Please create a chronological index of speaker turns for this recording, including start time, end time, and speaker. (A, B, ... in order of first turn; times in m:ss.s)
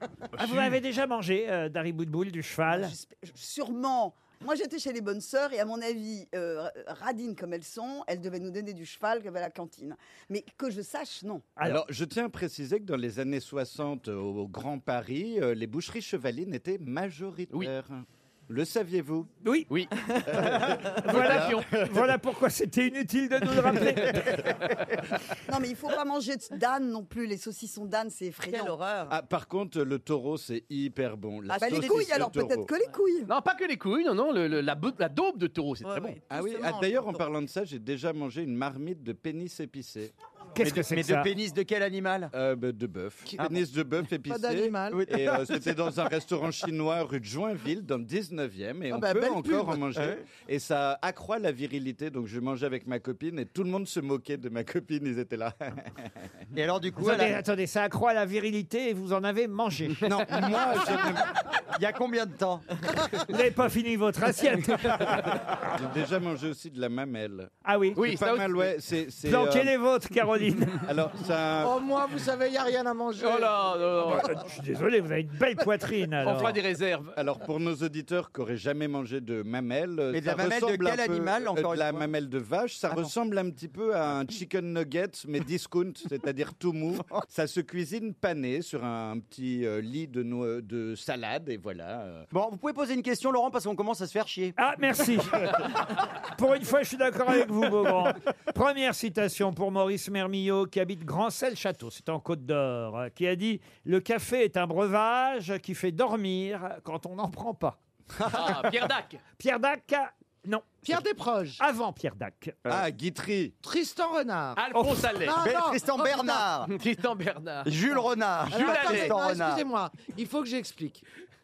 0:00.3-0:02.9 A
0:02.7-0:11.4 B
0:11.6-0:19.3 C
0:19.4-0:19.7 A
0:19.7-0:21.6 D
0:20.3-0:24.6 A
0:20.3-0:22.1 C
0:25.4-0:28.7 B
0:28.5-0:29.1 E
0:29.1-0:32.7 C
0:31.5-0:33.3 B
0:33.3-0:36.2 D
0:35.8-0:37.1 E
0:36.3-0:40.1 C
0:40.5-0:41.3 A
0:40.6-0:42.3 F
0:42.3-0:56.3 C
0:43.3-0:43.6 F
0:44.3-0:45.0 G
0:44.9-0:45.6 F
0:48.9-0:49.9 G
0:49.9-0:50.2 F
0:56.5-0:57.4 F
0:57.0-1:00.0 A
1:00.0-1:01.3 C
1:01.7-1:02.9 F
1:03.2-1:05.2 A
1:05.5-1:09.7 C
1:07.6-1:08.0 A
1:08.0-1:08.7 D
1:09.2-1:10.9 A
1:10.8-1:11.8 C
1:11.6-1:13.5 G
1:13.2-1:14.4 D
1:14.1-1:16.6 A
1:16.2-1:17.2 D
1:17.1-1:32.3 C
1:20.1-1:22.1 F
1:32.3-1:34.5 F
1:34.6-1:47.8 A
1:48.2-1:48.6 F
1:48.3-1:49.2 D
1:49.4-1:50.8 A
1:50.8-1:51.6 G
1:51.6-1:52.6 A
1:52.6-1:53.6 C
1:53.6-1:56.5 G
1:54.6-1:55.5 D
1:55.3-1:56.7 F
1:56.6-1:57.7 D
1:57.6-1:59.7 F
1:58.5-1:59.2 D
1:58.5-2:01.0 G